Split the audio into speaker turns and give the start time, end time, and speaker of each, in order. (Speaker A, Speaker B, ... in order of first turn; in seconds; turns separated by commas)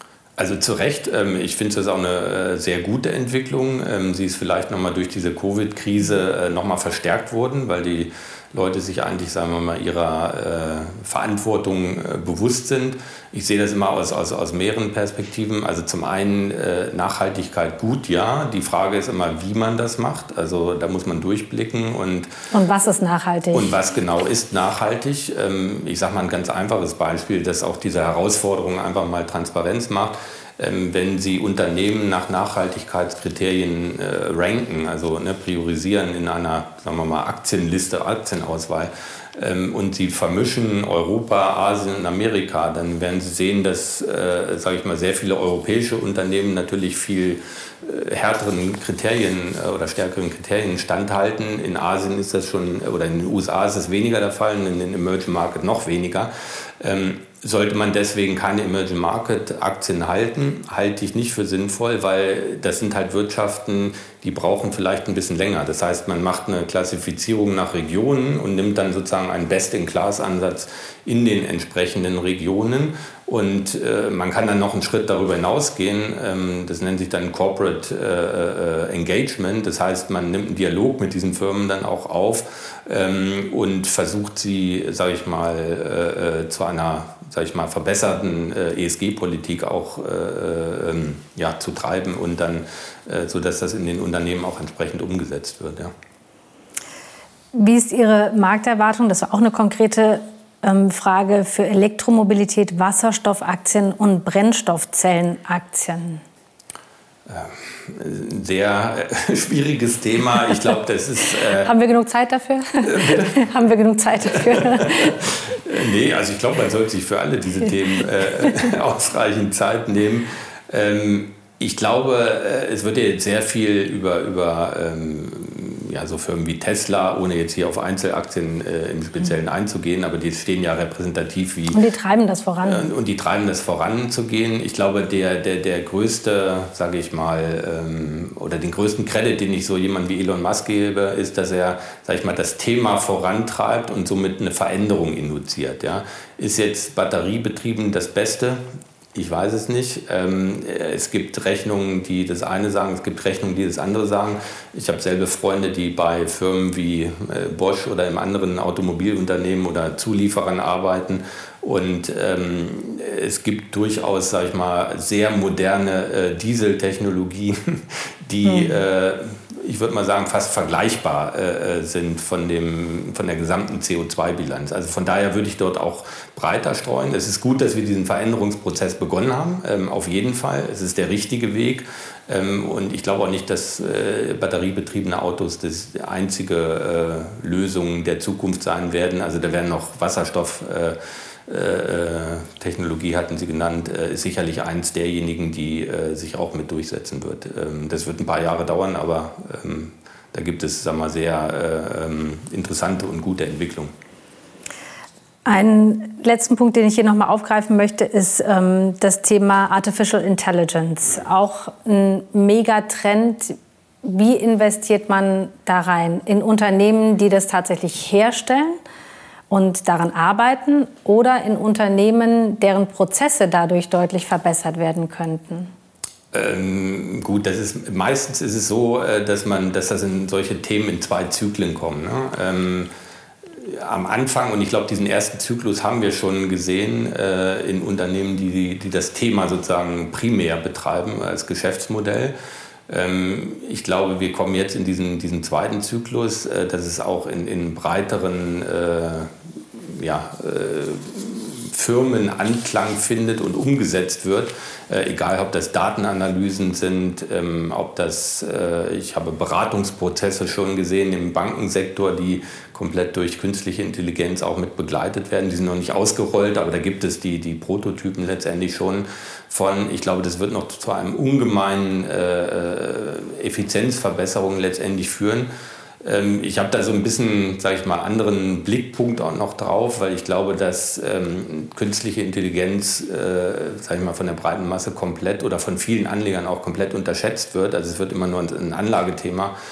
Speaker A: 0.4-22.3, Speaker B: 22.5-23.7, Speaker A: 23.5-95.9, Speaker B: 97.5-106.2, Speaker A: 107.3-111.7, Speaker B: 111.6-115.3, Speaker A: 112.8-113.3, Speaker A: 114.7-131.8, Speaker B: 131.7-132.8, Speaker A: 132.6-148.6, Speaker A: 149.1-203.9, Speaker B: 168.4-168.8, Speaker B: 205.4-218.8, Speaker B: 219.5-225.7, Speaker A: 226.3-232.9, Speaker A: 233.6-242.3, Speaker A: 242.9-275.5, Speaker A: 276.0-289.5